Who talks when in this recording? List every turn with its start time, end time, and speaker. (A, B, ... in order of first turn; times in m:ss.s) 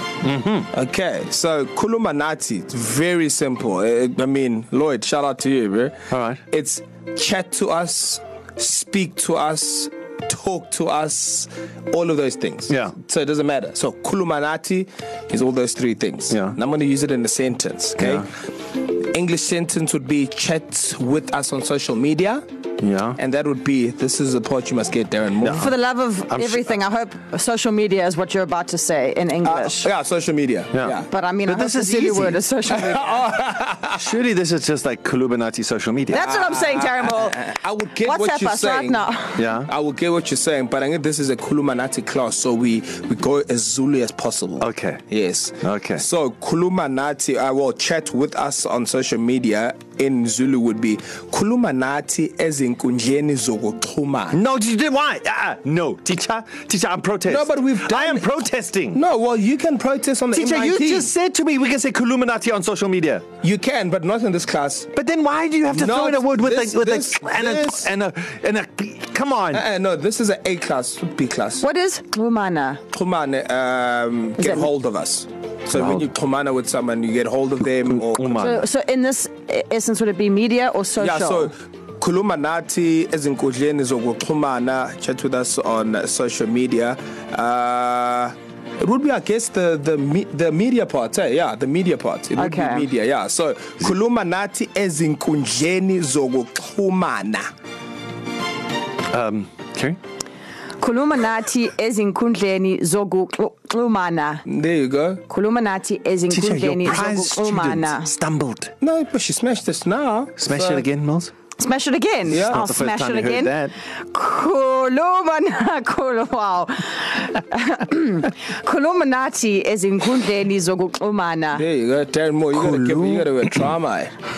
0:00.2-0:00.7 A
0:00.7-0:06.0 B
0:06.1-0:06.4 A
0:06.5-0:18.3 B
0:12.7-0:12.9 A
0:16.3-0:16.6 A
0:18.0-0:18.3 A
0:19.1-0:22.4 B
0:22.8-0:23.2 A
0:23.2-0:25.7 B
0:25.4-0:25.7 A
0:25.5-0:29.9 C
0:26.3-0:26.7 A
0:29.4-0:31.1 B
0:30.7-0:32.4 A
0:31.1-0:33.3 C
0:32.7-0:34.1 B
0:34.0-0:36.3 A
0:36.1-0:39.4 C
0:36.2-0:54.4 B
0:39.4-0:39.7 A
0:44.6-0:45.0 A
0:45.6-0:46.0 A
0:54.3-0:59.0 A
0:57.3-0:58.3 B
0:58.9-1:01.1 B
1:00.3-1:03.2 A
1:03.4-1:04.9 B
1:04.9-1:09.6 A
1:05.7-1:07.9 B
1:09.5-1:11.6 B
1:11.6-1:12.8 C
1:12.9-1:18.5 B
1:14.4-1:14.7 C
1:15.7-1:16.1 A
1:17.7-1:18.7 A
1:18.4-1:21.5 C
1:21.0-1:37.5 B
1:32.4-1:32.9 C
1:39.1-1:40.0 A
1:40.8-1:44.4 C
1:44.5-1:45.2 B
1:45.3-1:48.1 C
1:46.3-1:48.7 A
1:48.8-1:50.8 B
1:50.4-1:51.3 A
1:51.6-2:01.6 C
1:52.3-1:52.6 B
1:52.3-1:53.8 A
2:01.6-2:04.1 B
2:02.5-2:03.6 A